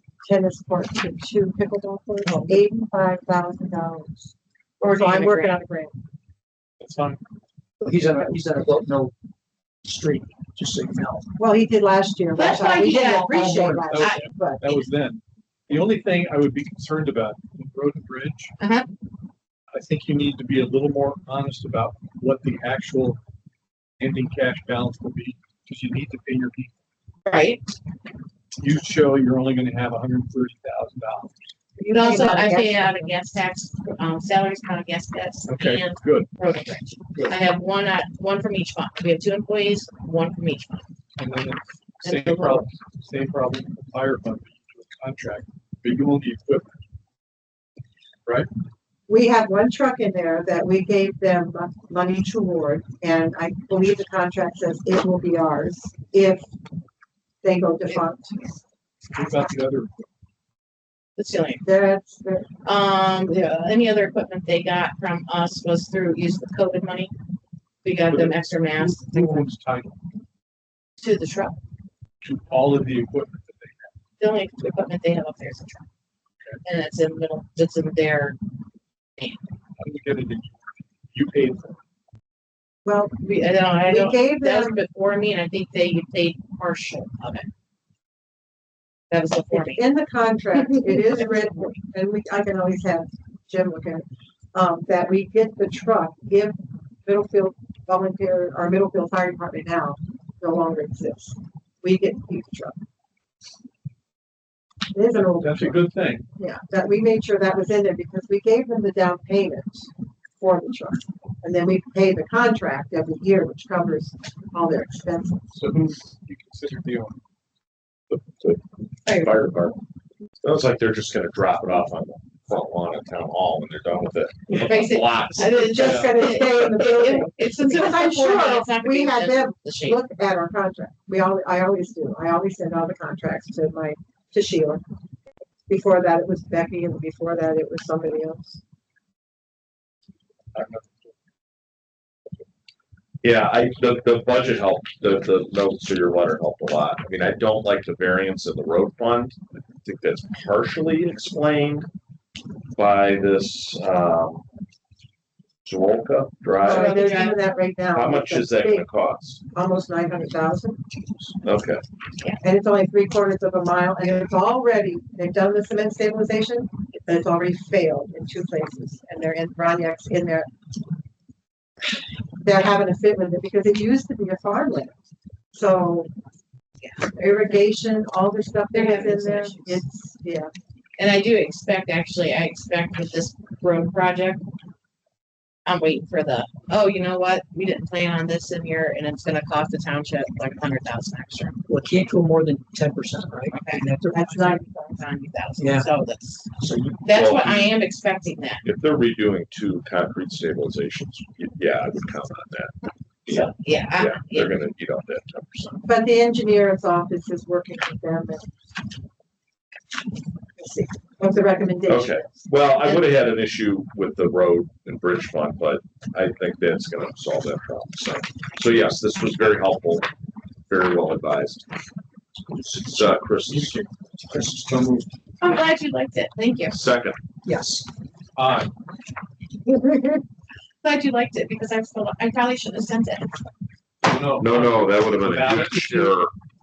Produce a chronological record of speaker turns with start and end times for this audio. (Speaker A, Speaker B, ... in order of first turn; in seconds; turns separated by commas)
Speaker A: 0.2-4.3, Speaker B: 2.2-2.6, Speaker B: 4.8-5.6, Speaker A: 4.8-6.0, Speaker C: 6.8-7.2, Speaker D: 7.8-9.1, Speaker D: 9.8-11.2, Speaker A: 11.4-14.7, Speaker B: 12.3-14.3, Speaker D: 12.5-14.0, Speaker C: 13.8-18.5, Speaker B: 18.6-18.9, Speaker C: 19.7-23.2, Speaker C: 24.0-26.7, Speaker B: 27.3-27.7, Speaker C: 28.6-31.3, Speaker A: 31.8-33.1, Speaker B: 31.8-40.9, Speaker C: 35.5-36.3, Speaker C: 41.2-46.7, Speaker B: 42.0-42.7, Speaker A: 49.1-56.5, Speaker A: 57.4-58.5, Speaker C: 59.1-60.1, Speaker B: 61.2-61.6, Speaker A: 61.6-62.5, Speaker B: 62.6-67.1, Speaker B: 67.8-69.5, Speaker C: 68.1-70.0, Speaker B: 71.0-71.6, Speaker C: 72.2-73.9, Speaker B: 74.2-75.8, Speaker B: 76.6-78.4, Speaker C: 79.8-81.8, Speaker A: 82.8-83.2, Speaker B: 83.2-87.5, Speaker A: 83.8-84.8, Speaker B: 89.1-89.8, Speaker A: 89.5-102.8, Speaker B: 90.5-91.8, Speaker A: 104.9-105.8, Speaker C: 105.4-106.3, Speaker A: 106.3-115.5, Speaker C: 115.5-117.2, Speaker E: 118.2-119.8, Speaker E: 120.4-126.8, Speaker B: 124.5-130.0, Speaker A: 125.6-134.8, Speaker A: 135.7-138.6, Speaker C: 140.6-140.9, Speaker E: 143.2-151.9, Speaker E: 152.8-154.4, Speaker E: 155.7-157.0, Speaker A: 156.6-158.9, Speaker B: 156.7-157.4, Speaker E: 157.9-159.4, Speaker A: 159.5-160.8, Speaker E: 161.4-161.8, Speaker A: 162.4-170.5, Speaker A: 172.4-175.0, Speaker A: 175.5-176.1, Speaker B: 176.8-177.5, Speaker A: 177.2-180.5, Speaker B: 178.7-179.8, Speaker B: 181.0-184.4, Speaker B: 185.7-191.6, Speaker D: 191.7-194.6, Speaker B: 193.5-193.9, Speaker A: 194.1-195.0, Speaker B: 194.9-196.5, Speaker D: 195.6-195.9, Speaker D: 196.6-197.1, Speaker B: 197.0-198.6, Speaker E: 197.1-197.7, Speaker E: 198.6-202.7, Speaker E: 203.3-205.8, Speaker B: 203.3-204.5, Speaker A: 205.8-208.5, Speaker A: 210.6-213.1, Speaker E: 211.9-220.1, Speaker E: 220.7-221.7, Speaker E: 222.6-223.9, Speaker D: 224.3-225.1, Speaker B: 225.4-226.8, Speaker E: 226.7-227.2, Speaker D: 227.4-227.9, Speaker C: 228.4-228.7, Speaker B: 230.8-233.4, Speaker C: 234.0-236.2, Speaker E: 234.4-236.3